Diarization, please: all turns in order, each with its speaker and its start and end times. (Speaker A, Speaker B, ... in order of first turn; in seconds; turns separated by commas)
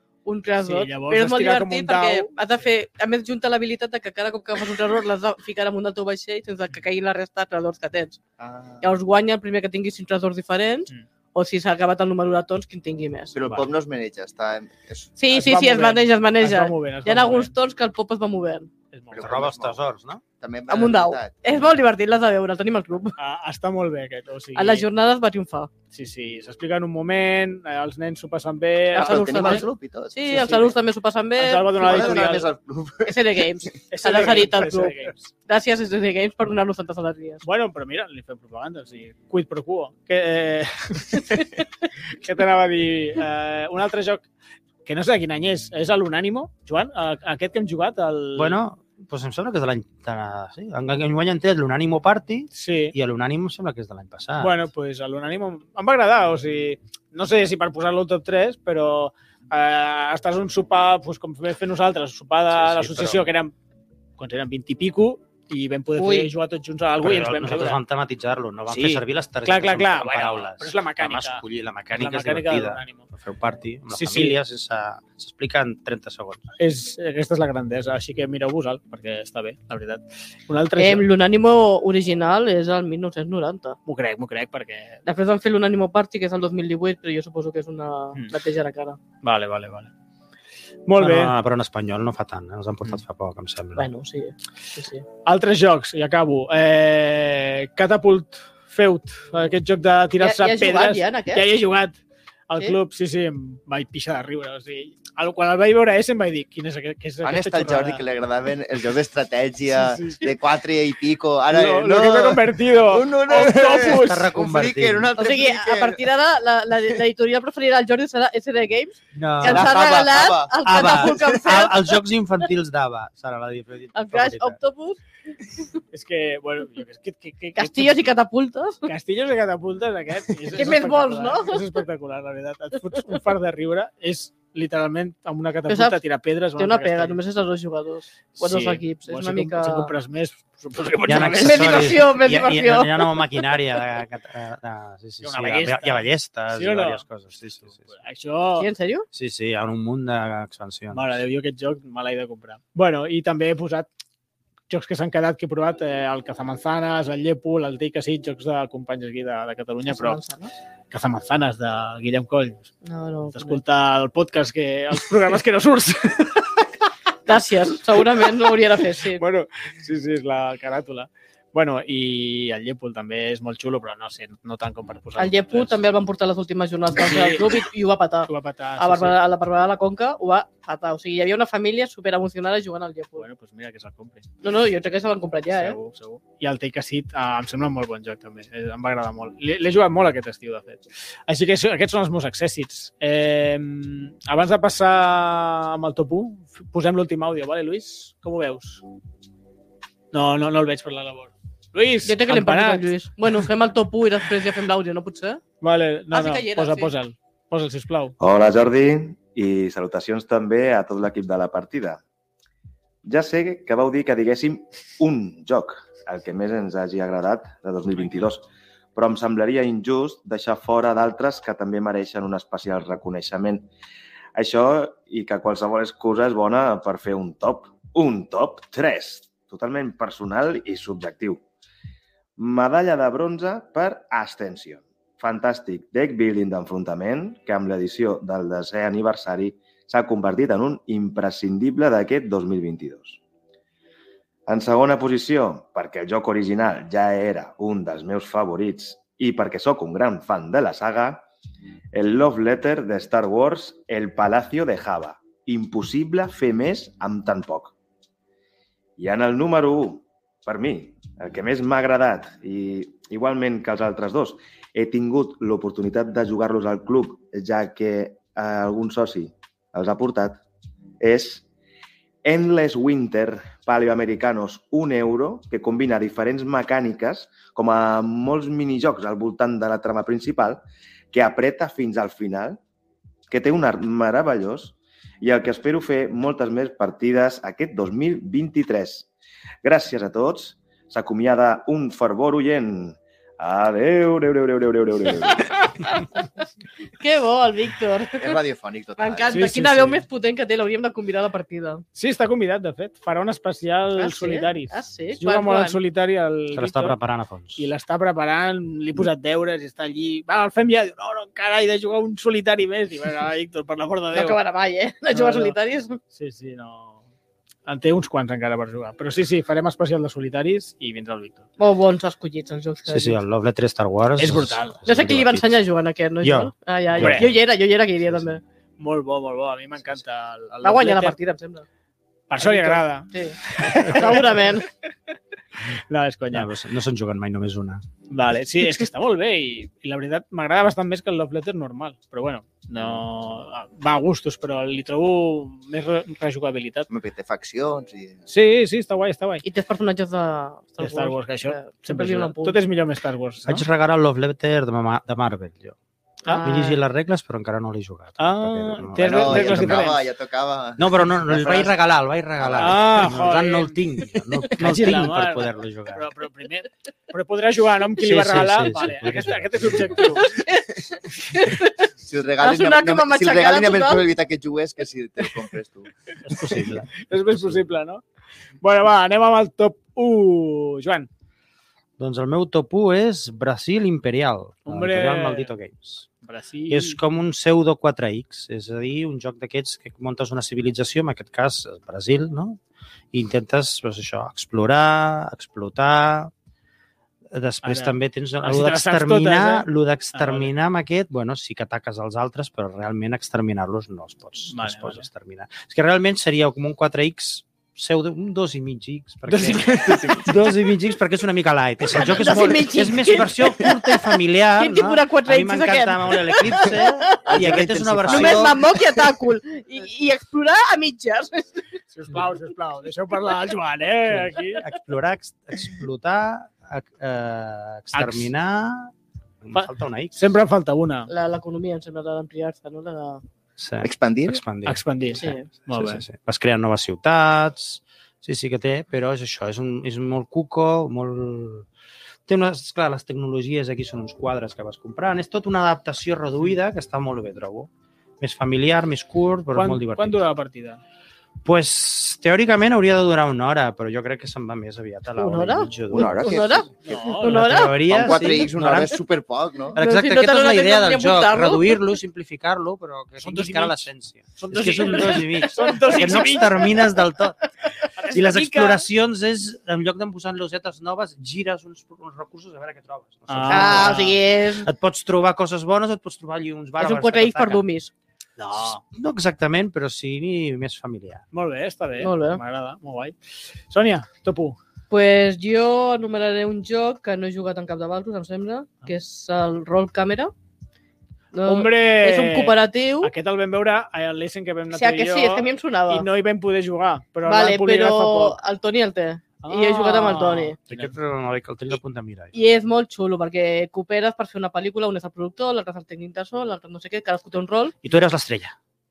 Speaker A: 0.2-8.2, Speaker B: 0.6-2.3, Speaker C: 8.4-8.9, Speaker A: 8.8-13.3, Speaker C: 13.3-15.1, Speaker A: 15.2-18.7, Speaker B: 15.3-17.5, Speaker B: 18.9-19.4, Speaker C: 19.1-19.8, Speaker D: 19.2-20.2, Speaker C: 20.4-21.6, Speaker A: 20.7-23.1, Speaker B: 23.2-24.9, Speaker A: 24.5-25.7, Speaker B: 25.9-29.6, Speaker A: 28.9-32.4, Speaker C: 28.9-30.7, Speaker B: 30.3-30.6, Speaker B: 31.4-32.5, Speaker C: 31.8-33.7, Speaker A: 33.0-37.4, Speaker B: 33.9-35.3, Speaker B: 37.4-41.6, Speaker B: 42.2-44.2, Speaker B: 44.9-48.6, Speaker D: 48.4-54.6, Speaker B: 52.5-52.9, Speaker B: 54.4-63.5, Speaker D: 62.5-63.3, Speaker B: 64.2-67.8, Speaker A: 66.0-66.3, Speaker D: 67.0-76.5, Speaker B: 68.7-73.1, Speaker B: 73.9-74.4, Speaker B: 76.6-81.1, Speaker A: 80.8-83.8, Speaker B: 83.8-85.0, Speaker A: 85.0-89.0, Speaker B: 89.2-89.9, Speaker B: 90.9-91.3, Speaker D: 91.0-93.8, Speaker A: 93.8-95.0, Speaker B: 95.2-108.0, Speaker A: 100.2-101.5, Speaker C: 107.2-116.0, Speaker B: 109.7-110.2, Speaker B: 111.5-114.3, Speaker D: 113.3-115.1, Speaker A: 115.2-121.8, Speaker D: 119.1-120.0, Speaker C: 119.4-121.6, Speaker D: 120.6-124.6, Speaker A: 123.9-125.0, Speaker B: 125.9-128.0, Speaker A: 127.5-128.9, Speaker B: 128.8-137.2, Speaker A: 130.5-131.6, Speaker A: 135.7-136.0, Speaker A: 136.6-139.9, Speaker B: 138.4-142.1, Speaker D: 141.0-147.9, Speaker A: 141.3-143.2, Speaker B: 145.2-147.0, Speaker B: 147.6-148.7, Speaker A: 148.6-149.1, Speaker D: 149.1-151.2, Speaker B: 150.9-153.9, Speaker B: 154.7-160.2, Speaker A: 159.9-160.5, Speaker B: 160.9-162.7, Speaker A: 162.8-163.6, Speaker B: 163.3-166.5, Speaker A: 167.2-169.2, Speaker B: 168.0-168.4, Speaker B: 169.1-175.8, Speaker A: 175.2-183.2, Speaker B: 177.0-177.6, Speaker B: 178.3-179.2, Speaker B: 183.2-184.2, Speaker A: 184.4-185.8, Speaker B: 185.5-198.8, Speaker B: 200.1-203.5, Speaker A: 202.1-205.4, Speaker B: 205.6-208.1, Speaker A: 206.1-206.9, Speaker E: 208.2-212.0, Speaker E: 213.0-223.7, Speaker E: 224.3-231.4, Speaker E: 232.4-243.2, Speaker E: 244.5-251.2, Speaker E: 251.9-257.7, Speaker E: 259.0-270.4, Speaker E: 271.0-271.4, Speaker E: 272.2-282.6, Speaker E: 283.3-289.1, Speaker E: 289.6-295.5, Speaker A: 295.8-296.1, Speaker A: 297.0-298.3, Speaker C: 298.2-299.4, Speaker A: 299.0-301.8, Speaker B: 299.3-300.0, Speaker B: 301.9-306.9, Speaker A: 304.0-305.8, Speaker D: 306.5-307.7, Speaker B: 307.6-314.4, Speaker A: 314.1-316.0, Speaker B: 315.1-315.6, Speaker B: 316.1-317.0, Speaker B: 317.6-321.5, Speaker A: 321.6-323.2, Speaker D: 322.9-325.6, Speaker B: 324.2-324.8, Speaker A: 324.8-328.4, Speaker D: 326.2-327.3, Speaker B: 327.0-327.3, Speaker B: 328.8-331.1, Speaker A: 330.6-331.6, Speaker B: 332.3-334.6, Speaker A: 332.4-334.7, Speaker B: 335.7-336.5, Speaker D: 336.3-337.9, Speaker B: 338.1-346.9, Speaker C: 346.9-348.3, Speaker B: 348.3-349.4, Speaker A: 349.4-352.6, Speaker B: 350.8-353.6, Speaker D: 353.4-355.8, Speaker A: 356.2-356.8, Speaker D: 356.4-359.9, Speaker B: 358.2-360.0, Speaker C: 359.0-361.8, Speaker D: 360.8-366.0, Speaker C: 362.4-363.1, Speaker B: 362.6-363.7, Speaker B: 364.6-370.4, Speaker D: 368.0-370.1, Speaker A: 370.1-371.9, Speaker C: 372.0-375.9, Speaker A: 372.4-374.1, Speaker B: 376.2-378.0, Speaker D: 377.3-377.6, Speaker B: 378.6-381.1, Speaker D: 382.0-386.1, Speaker B: 384.6-385.5, Speaker B: 386.2-387.0, Speaker D: 386.7-392.6, Speaker D: 393.1-396.3, Speaker D: 397.3-418.6, Speaker B: 397.6-400.5, Speaker B: 404.5-405.1, Speaker B: 409.3-410.3, Speaker C: 409.9-410.2, Speaker A: 411.9-413.8, Speaker A: 414.6-417.3, Speaker C: 417.2-419.1, Speaker A: 418.1-421.6, Speaker B: 421.9-424.6, Speaker D: 424.1-430.2, Speaker B: 427.9-428.3, Speaker B: 429.5-431.1, Speaker A: 431.1-433.2, Speaker D: 433.6-434.8, Speaker C: 433.8-434.4, Speaker B: 434.6-436.0, Speaker A: 435.2-435.5, Speaker D: 435.7-441.7, Speaker D: 442.3-447.7, Speaker D: 448.2-450.2, Speaker B: 449.5-450.8, Speaker D: 451.4-456.4, Speaker A: 455.2-457.8, Speaker C: 455.9-457.0, Speaker B: 456.8-458.2, Speaker D: 457.2-459.0, Speaker C: 457.9-459.8, Speaker D: 459.7-467.5, Speaker A: 459.8-461.8, Speaker B: 463.2-466.8, Speaker B: 468.0-468.8, Speaker D: 468.0-474.1, Speaker B: 473.3-474.2, Speaker A: 473.5-474.7, Speaker D: 474.6-477.6, Speaker A: 476.8-477.9, Speaker B: 478.4-478.8, Speaker D: 478.6-481.2, Speaker B: 481.3-484.6, Speaker A: 482.0-482.4, Speaker A: 484.9-490.3, Speaker A: 491.3-493.1, Speaker B: 491.4-498.4, Speaker A: 494.7-496.1, Speaker A: 497.2-500.6, Speaker B: 499.4-500.9, Speaker D: 500.7-502.3, Speaker A: 502.3-507.7, Speaker D: 507.8-508.6